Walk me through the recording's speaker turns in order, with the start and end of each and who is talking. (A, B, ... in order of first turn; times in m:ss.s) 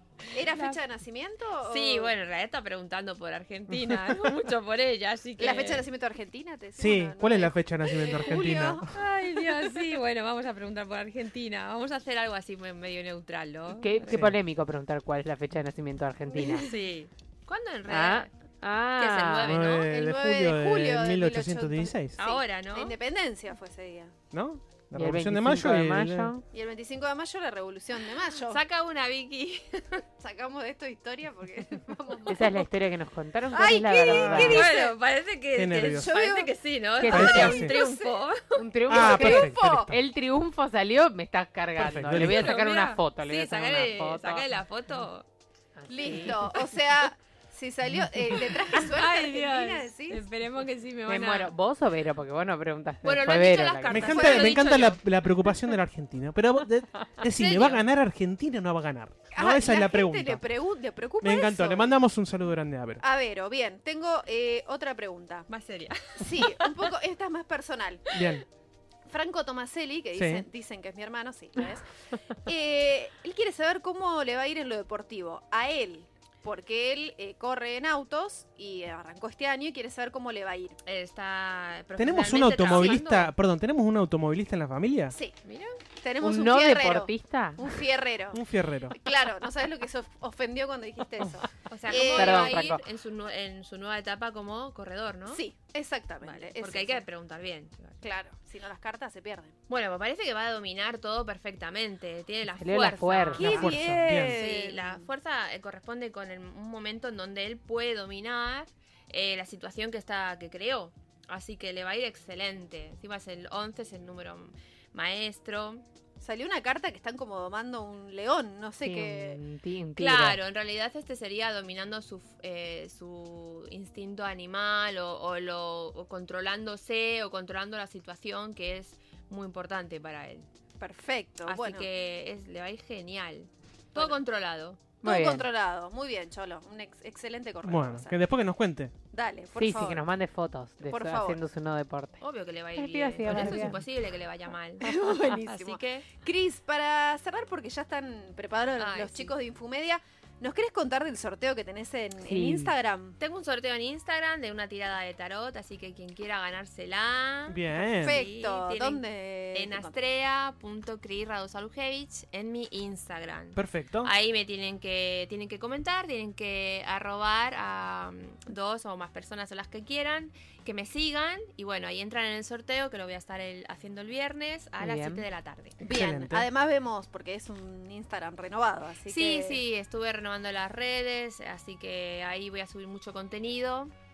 0:00.3-0:02.1 A
0:00.4-0:00.8 B
0:01.6-0:05.9 B
0:05.4-0:08.8 A
0:06.8-0:08.9 C
0:08.9-0:14.4 B
0:13.7-0:16.6 D
0:16.6-0:18.3 B
0:17.9-0:19.6 D
0:19.0-0:19.9 B
0:19.4-0:22.2 C
0:19.7-0:24.1 A
0:22.2-0:23.0 B
0:24.3-0:26.3 C
0:24.9-0:26.4 D
0:26.5-0:28.6 A
0:28.3-0:30.0 B
0:30.2-0:32.6 A
0:32.3-0:34.6 D
0:33.5-0:34.9 A
0:34.0-0:34.7 C
0:34.4-0:38.6 B
0:35.6-0:36.1 C
0:35.8-0:36.5 A
0:37.0-0:37.7 D
0:37.1-0:37.8 C
0:38.5-0:44.5 D
0:38.9-0:39.9 C
0:38.9-0:39.9 A
0:41.8-0:42.5 C
0:42.2-0:45.3 B
0:45.8-0:46.5 D
0:45.9-0:50.3 A
0:48.7-0:51.5 B
0:51.1-0:54.2 D
0:53.0-0:55.0 B
0:53.9-1:00.4 C
0:54.0-0:54.6 A
0:57.3-0:57.8 B
0:59.3-1:02.0 A
1:01.2-1:03.0 C
1:03.0-1:05.5 A
1:05.5-1:06.8 B
1:06.2-1:08.1 A
1:08.1-1:08.4 C
1:09.1-1:20.8 A
1:10.1-1:10.4 C
1:20.9-1:23.3 B
1:22.0-1:25.1 C
1:22.7-1:23.0 A
1:25.1-1:25.4 A
1:25.4-1:25.8 B
1:26.0-1:32.7 A
1:26.2-1:27.6 D
1:28.3-1:28.9 C
1:31.7-1:35.4 B
1:32.0-1:32.8 D
1:35.3-1:37.0 A
1:36.2-1:38.0 B
1:38.0-1:39.6 A
1:39.7-1:55.8 B
1:42.6-1:43.5 D
1:43.4-1:45.0 A
1:43.4-1:44.4 C
1:56.2-1:59.4 A
1:58.8-2:00.4 D
2:00.0-2:10.5 B
2:10.8-2:11.9 A
2:11.4-2:14.9 B
2:15.0-2:15.4 D
2:15.0-2:18.2 A
2:17.6-2:18.9 C
2:19.1-2:20.0 A
2:19.6-2:22.2 D
2:20.8-2:21.4 A
2:22.2-2:26.1 B
2:22.7-2:23.8 D
2:24.8-2:33.2 A
2:28.8-2:29.3 B
2:32.2-2:32.7 D
2:33.2-2:55.8 B
2:37.5-2:38.2 C
2:37.9-2:40.0 A
2:43.6-2:44.1 C
2:54.8-2:55.2 D
2:55.8-2:56.5 C
2:55.8-2:59.6 A
2:59.1-3:03.9 B